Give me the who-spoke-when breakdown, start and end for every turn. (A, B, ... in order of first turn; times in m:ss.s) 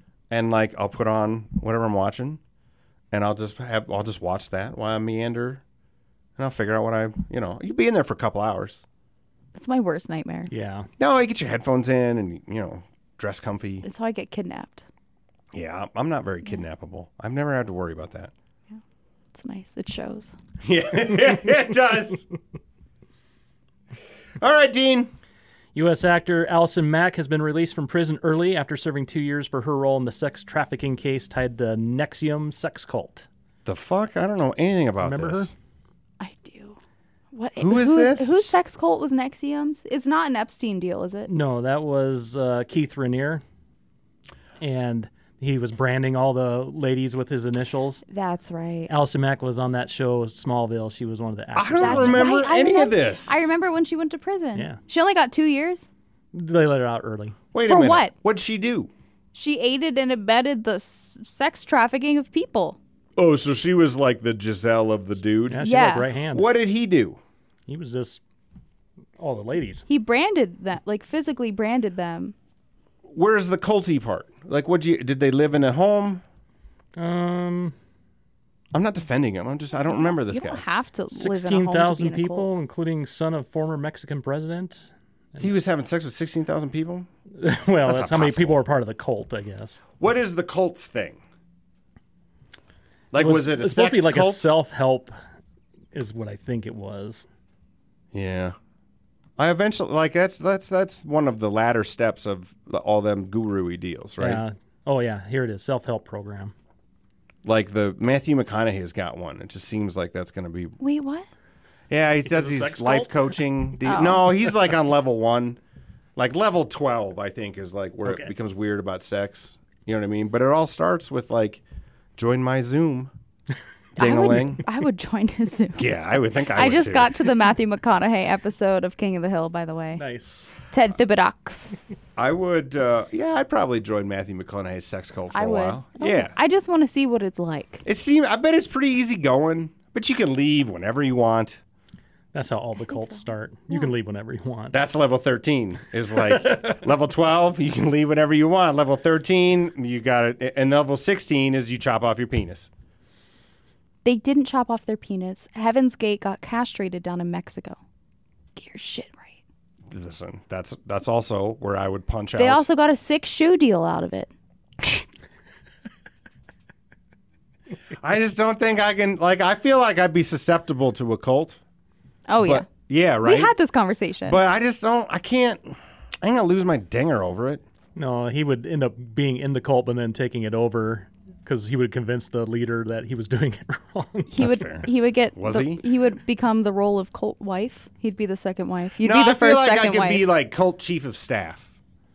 0:00.3-0:02.4 A
0:03.1-0:05.6 A
0:06.4-0:08.8 A
0:09.5-0:10.5 B
0:10.5-0:10.9 C
0:11.0-0:13.8 A
0:13.8-0:14.8 B
0:15.5-0:18.3 A
0:19.3-0:20.3 B
0:20.6-0:22.2 A
0:24.4-0:25.1 A
0:25.7-0:33.3 C
0:33.6-0:35.5 A
0:35.0-0:35.5 C
0:36.2-0:36.8 B
0:37.3-0:41.3 B
0:37.6-0:38.6 A
0:41.3-0:43.4 C
0:44.6-0:48.0 C
0:48.1-0:48.9 B
0:48.9-0:52.3 C
0:51.5-0:53.4 A
0:51.8-0:55.9 B
0:56.3-0:57.4 C
0:57.5-0:58.9 A
0:57.6-0:58.1 B
0:59.3-1:02.8 B
1:03.2-1:05.6 A
1:05.5-1:06.5 C
1:05.6-1:06.1 B
1:06.3-1:07.2 A
1:07.7-1:08.2 C
1:09.2-1:09.8 C
1:09.9-1:12.3 B
1:13.1-1:16.2 A
1:17.0-1:17.7 C
1:18.7-1:20.6 A
1:19.9-1:22.5 B
1:21.1-1:25.5 C
1:25.4-1:27.1 A
1:27.4-1:29.8 C
1:27.8-1:28.6 A
1:30.0-1:31.2 A
1:33.1-1:34.5 A
1:33.1-1:35.1 C
1:35.9-1:37.2 C
1:38.1-1:38.5 A
1:39.4-1:44.4 A
1:44.2-1:46.5 C
1:47.4-1:50.8 A
1:50.8-1:51.3 B
1:51.9-1:55.6 A
1:52.3-1:53.3 C
1:53.8-1:54.3 B
1:56.2-2:01.6 A
1:58.0-1:58.3 C
2:02.2-2:03.1 A
2:04.0-2:04.6 A
2:04.0-2:05.9 B
2:05.8-2:07.2 A
2:06.5-2:10.0 B
2:10.0-2:10.4 C
2:10.7-2:12.1 B
2:12.2-2:16.4 A
2:15.3-2:17.8 B
2:17.8-2:21.6 A
2:22.3-2:24.8 C
2:22.9-2:23.9 B
2:24.7-2:32.7 A
2:34.0-2:37.8 B
2:38.6-2:39.4 B
2:39.9-2:42.7 A
2:42.4-2:44.3 B
2:48.0-2:51.6 A
2:52.3-2:52.7 B
2:52.4-2:53.5 A
2:53.2-2:54.4 B
2:54.3-2:57.6 A
2:58.0-3:04.4 C
3:04.3-3:10.3 B
3:04.4-3:05.8 A
3:09.0-3:11.7 A